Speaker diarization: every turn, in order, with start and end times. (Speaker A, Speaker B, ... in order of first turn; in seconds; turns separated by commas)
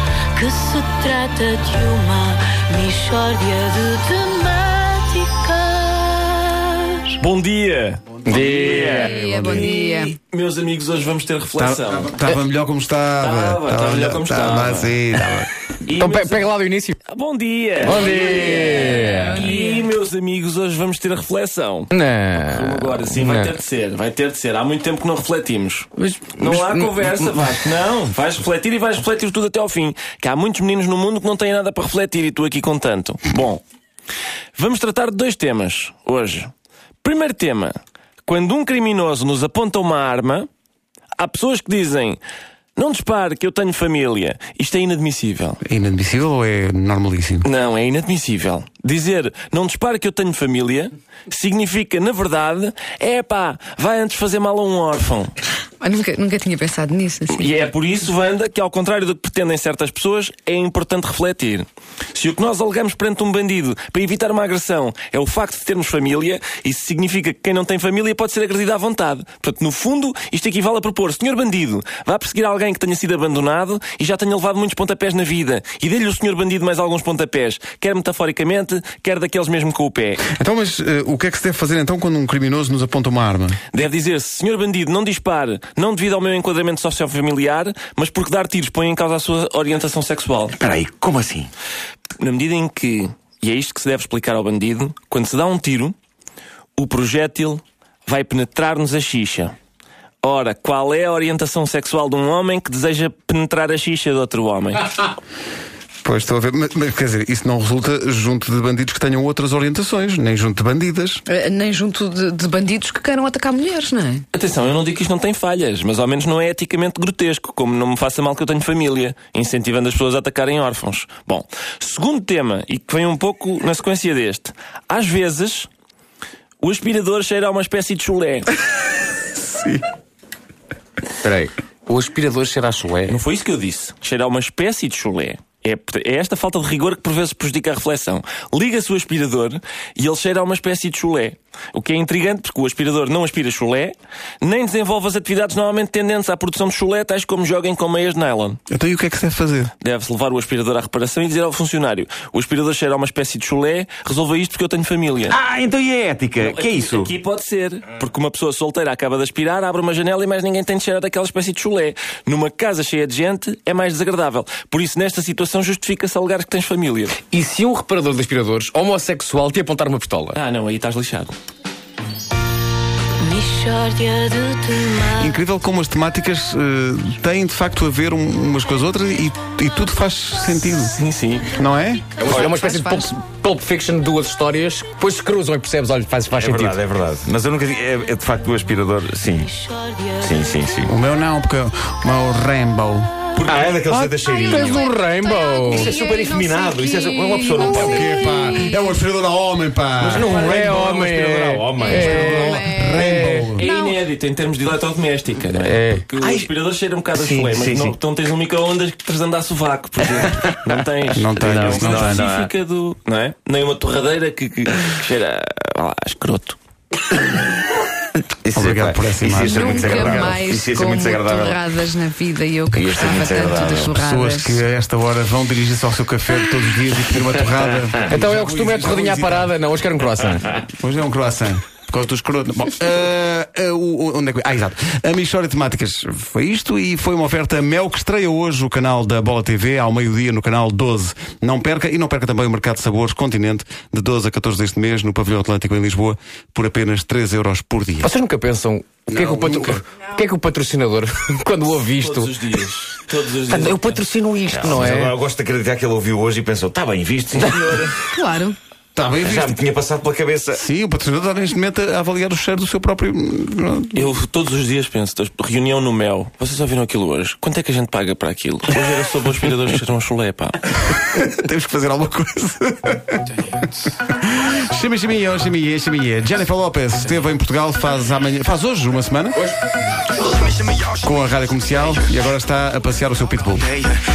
Speaker A: 0.3-7.2, Speaker B: 7.2-12.2, Speaker C: 8.3-9.2, Speaker D: 8.3-9.7, Speaker E: 9.0-10.2, Speaker D: 11.6-15.5, Speaker B: 13.2-15.0, Speaker B: 15.8-16.5, Speaker C: 15.9-17.0, Speaker B: 17.1-33.6, Speaker C: 17.8-19.4, Speaker E: 18.1-19.8, Speaker A: 18.3-18.9, Speaker C: 21.9-23.6, Speaker C: 26.0-27.3, Speaker B: 34.5-36.5, Speaker B: 37.0-40.5, Speaker B: 41.2-42.2, Speaker B: 42.8-45.6, Speaker D: 45.6-47.5, Speaker B: 47.4-55.3, Speaker E: 55.8-57.5, Speaker B: 57.3-80.2, Speaker D: 80.3-83.6, Speaker B: 83.7-90.5, Speaker F: 90.6-91.5, Speaker B: 92.2-96.0, Speaker B: 96.8-99.5, Speaker B: 100.2-105.1, Speaker D: 106.0-111.2, Speaker E: 111.3-114.2, Speaker B: 114.3-125.7, Speaker B: 126.6-128.5, Speaker D: 129.5-129.8, Speaker C: 131.2-133.2, Speaker B: 133.1-148.6, Speaker D: 148.7-149.7, Speaker B: 149.8-155.4, Speaker F: 155.3-157.1, Speaker B: 156.4-167.2, Speaker C: 167.2-170.4, Speaker B: 170.3-171.4, Speaker A: 173.2-175.3, Speaker D: 175.2-181.0, Speaker B: 180.9-181.5, Speaker D: 181.5-182.1, Speaker C: 182.2-186.8, Speaker B: 182.2-182.5, Speaker E: 182.6-183.0, Speaker F: 186.3-189.5, Speaker A: 189.4-190.6, Speaker F: 190.2-190.9, Speaker D: 190.9-193.1, Speaker B: 193.3-193.8, Speaker F: 193.5-194.8, Speaker C: 193.5-195.9, Speaker A: 194.3-194.9, Speaker E: 194.8-198.9, Speaker A: 195.6-196.1, Speaker F: 195.7-198.2, Speaker D: 197.7-200.4, Speaker F: 200.0-202.6, Speaker C: 200.3-203.6, Speaker E: 201.8-204.0, Speaker D: 202.2-203.7, Speaker B: 203.6-216.6, Speaker C: 205.6-206.1, Speaker F: 206.2-206.5, Speaker F: 207.2-208.0, Speaker D: 211.1-212.3, Speaker F: 218.4-221.7, Speaker D: 218.5-220.4, Speaker E: 219.4-224.6, Speaker F: 222.7-224.0, Speaker D: 224.0-229.5, Speaker C: 228.1-230.6, Speaker D: 230.7-248.1, Speaker C: 248.0-252.3, Speaker D: 249.1-249.8, Speaker B: 251.9-254.1, Speaker C: 253.5-255.2, Speaker F: 254.5-258.1, Speaker E: 258.1-258.6, Speaker D: 258.9-259.6, Speaker F: 259.2-260.6, Speaker D: 260.5-264.1, Speaker B: 263.9-270.7, Speaker D: 270.9-279.5, Speaker D: 280.9-283.8